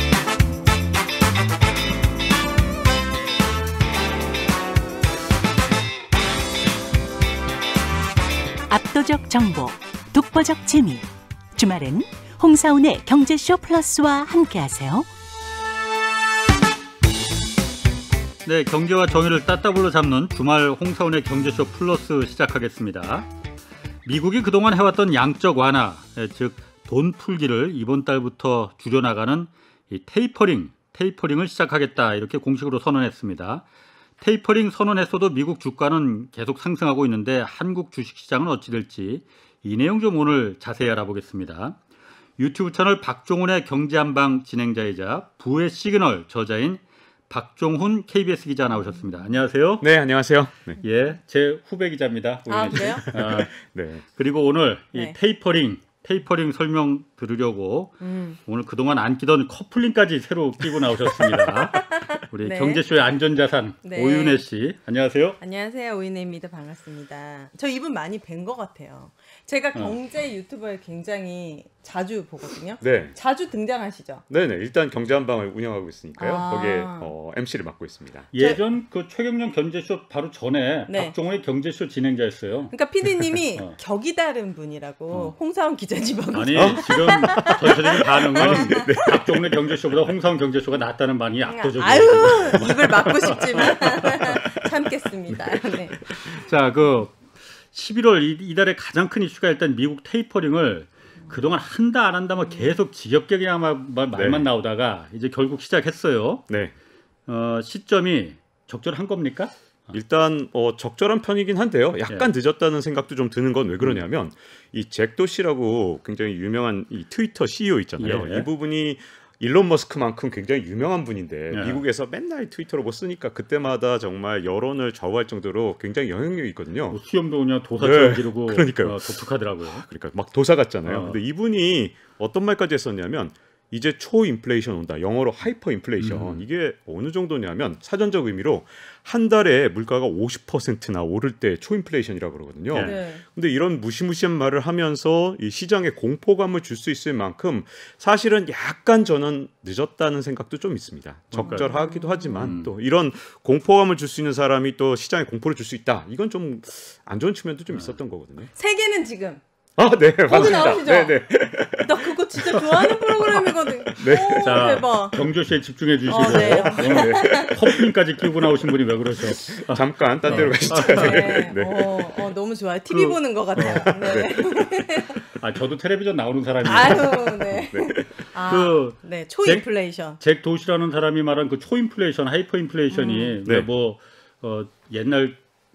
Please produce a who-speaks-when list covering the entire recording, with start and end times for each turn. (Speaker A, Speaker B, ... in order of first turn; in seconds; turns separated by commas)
Speaker A: 8.7-15.1, Speaker B: 18.4-23.3, Speaker B: 24.0-33.6, Speaker B: 34.2-41.8, Speaker B: 42.4-49.9, Speaker C: 49.8-50.8, Speaker B: 50.8-65.4, Speaker D: 52.5-53.0, Speaker C: 52.8-54.0, Speaker D: 58.0-58.4, Speaker D: 61.8-62.8, Speaker D: 63.8-64.4, Speaker D: 65.4-74.2, Speaker C: 72.8-73.2, Speaker C: 74.3-78.3, Speaker D: 76.2-77.1, Speaker B: 78.3-82.7, Speaker D: 78.3-78.6, Speaker D: 80.9-81.1, Speaker D: 82.7-89.2, Speaker B: 86.3-93.9, Speaker C: 86.5-87.6, Speaker C: 88.4-89.3, Speaker D: 91.5-96.4, Speaker C: 92.6-94.4, Speaker C: 95.3-96.4, Speaker B: 96.4-97.2, Speaker B: 97.7-106.5, Speaker C: 104.1-104.5, Speaker C: 106.5-106.7, Speaker B: 107.3-109.9, Speaker C: 109.9-127.0, Speaker B: 118.0-118.5, Speaker B: 121.5-121.8, Speaker B: 126.9-129.8, Speaker C: 127.8-158.5, Speaker B: 130.8-131.2, Speaker B: 136.0-136.4, Speaker B: 142.7-143.0, Speaker D: 142.8-143.2, Speaker B: 151.3-151.7, Speaker D: 151.4-152.5, Speaker B: 152.4-152.7, Speaker B: 157.7-158.0, Speaker D: 158.6-159.4, Speaker C: 159.8-164.8, Speaker D: 160.2-161.2, Speaker D: 161.8-165.2, Speaker B: 164.3-171.3, Speaker D: 166.1-167.6, Speaker C: 166.1-167.9, Speaker C: 168.4-168.7, Speaker C: 169.2-172.1, Speaker D: 170.3-175.2, Speaker B: 172.9-173.9, Speaker C: 174.0-174.9, Speaker B: 175.3-177.5, Speaker D: 176.6-180.2, Speaker C: 177.6-178.3, Speaker B: 178.5-185.4, Speaker D: 182.9-183.4